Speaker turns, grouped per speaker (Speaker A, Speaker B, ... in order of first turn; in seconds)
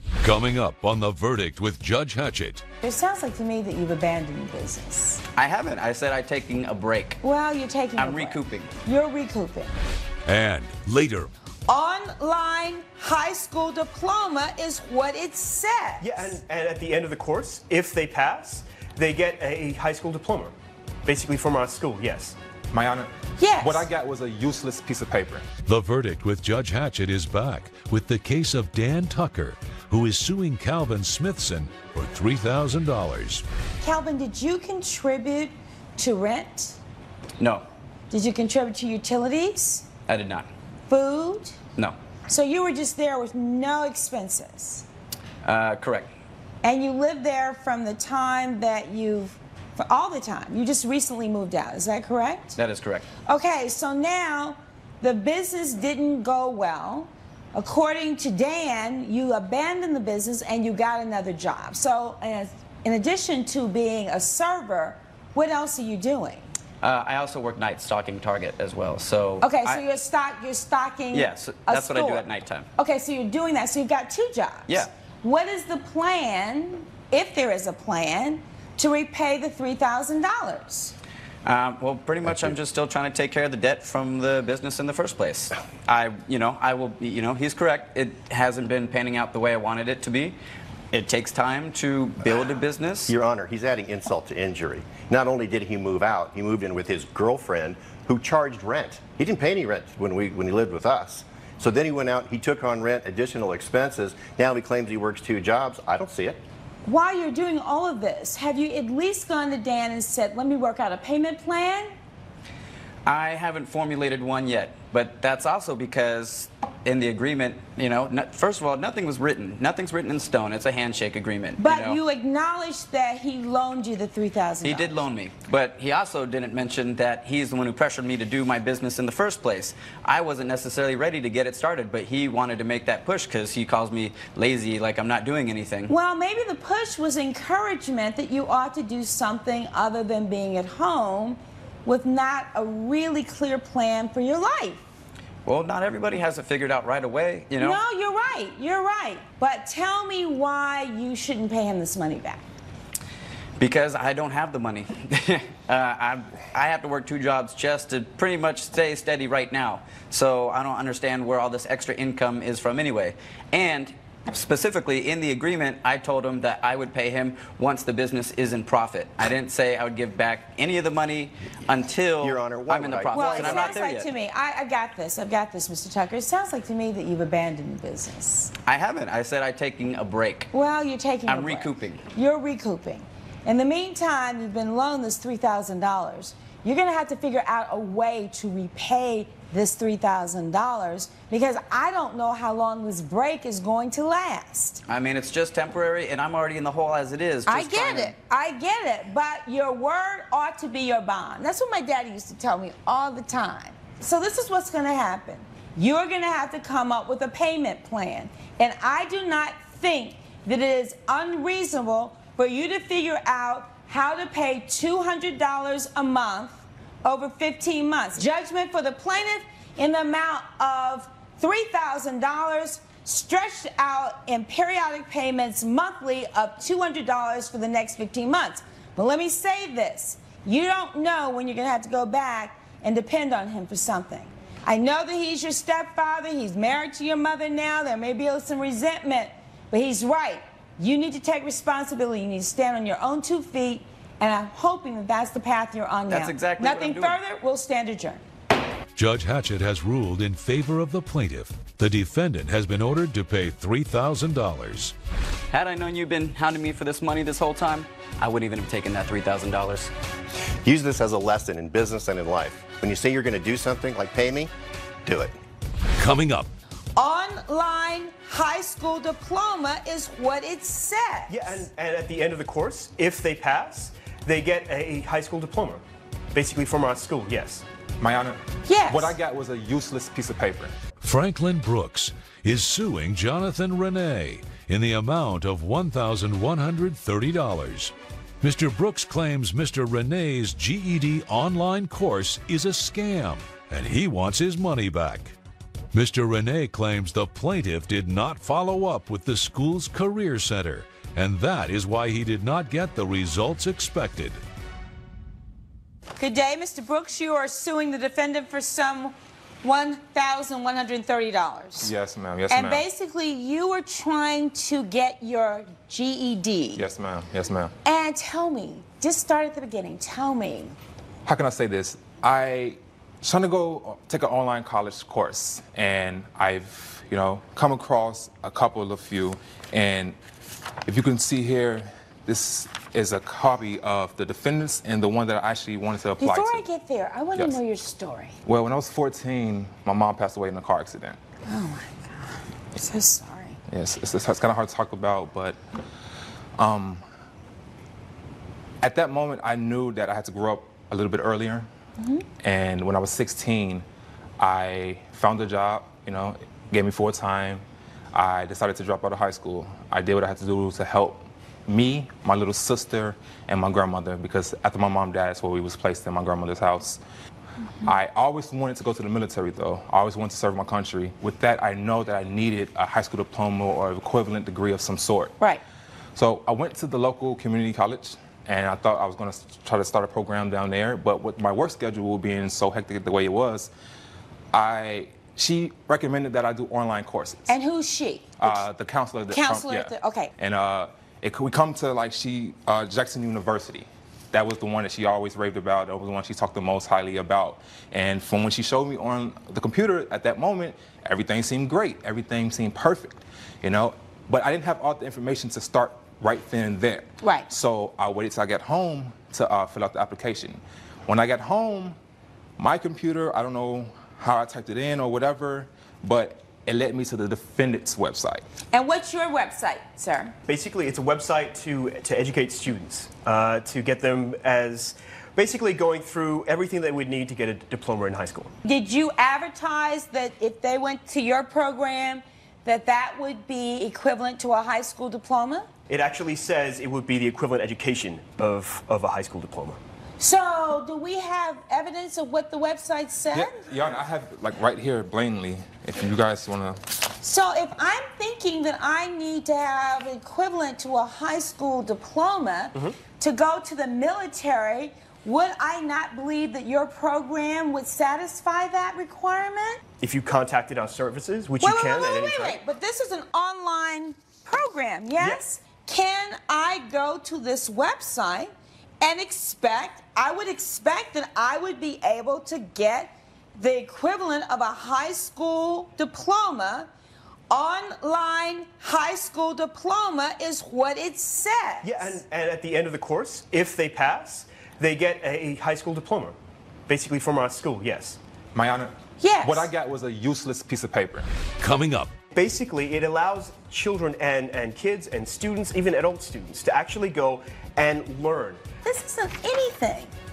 Speaker A: 0.2-2.6, 10.3-11.3, 25.7-33.4, 248.9-254.9, 266.0-266.5, 281.0-295.4, 295.9-304.4, 491.6-492.1
Speaker B: 2.8-5.2, 7.2-9.8, 11.7-16.4, 23.4-23.9, 33.8-36.8, 38.1-39.9, 40.9-41.6, 42.3-44.9, 46.6-52.6, 53.3-66.5, 69.4-72.2, 72.8-80.9, 106.8-111.9, 121.6-125.0, 135.9-144.8, 147.6-152.4, 173.1-178.5, 180.5-194.8, 197.5-248.2, 267.0-271.6, 278.7-279.1, 306.2-311.9, 312.5-316.8, 317.8-320.8, 336.2-338.4, 341.5-343.6, 387.5-388.6, 389.3-390.3, 407.2-407.5, 418.7-420.3, 428.6-435.7, 440.2-443.6, 447.2-459.8, 461.6-476.9, 477.5-482.2, 489.2-489.7, 498.8-500.1
Speaker C: 5.3-7.2, 8.0-8.7, 37.4-37.7, 40.1-40.5, 45.4-46.1, 52.6-53.1, 66.8-69.8, 71.1-72.7, 81.5-90.4, 90.9-93.1, 113.1-122.0, 124.6-135.9, 145.5-147.8, 153.6-174.1, 178.6-180.5, 181.2-182.0, 194.9-198.2, 246.1-247.2, 255.5-259.9
Speaker D: 16.0-20.5, 21.1-22.4, 271.3-275.8, 276.4-277.6, 420.5-428.5, 435.9-439.8, 460.0-462.6, 481.8-486.4, 486.9-488.2, 492.4-498.6
Speaker E: 22.7-25.5, 278.0-280.7, 311.8-312.8, 316.8-317.7, 321.2-330.1, 330.9-336.6, 338.4-341.2, 343.7-345.6, 346.6-347.0, 348.8-351.7, 352.4-353.9, 354.4-367.0, 367.9-375.4, 376.1-383.7, 384.5-387.6, 388.4-412.0, 412.6-418.4, 443.3-446.8, 488.6-491.3
Speaker F: 93.1-106.4, 172.2-173.8, 260.6-264.5, 265.1-265.4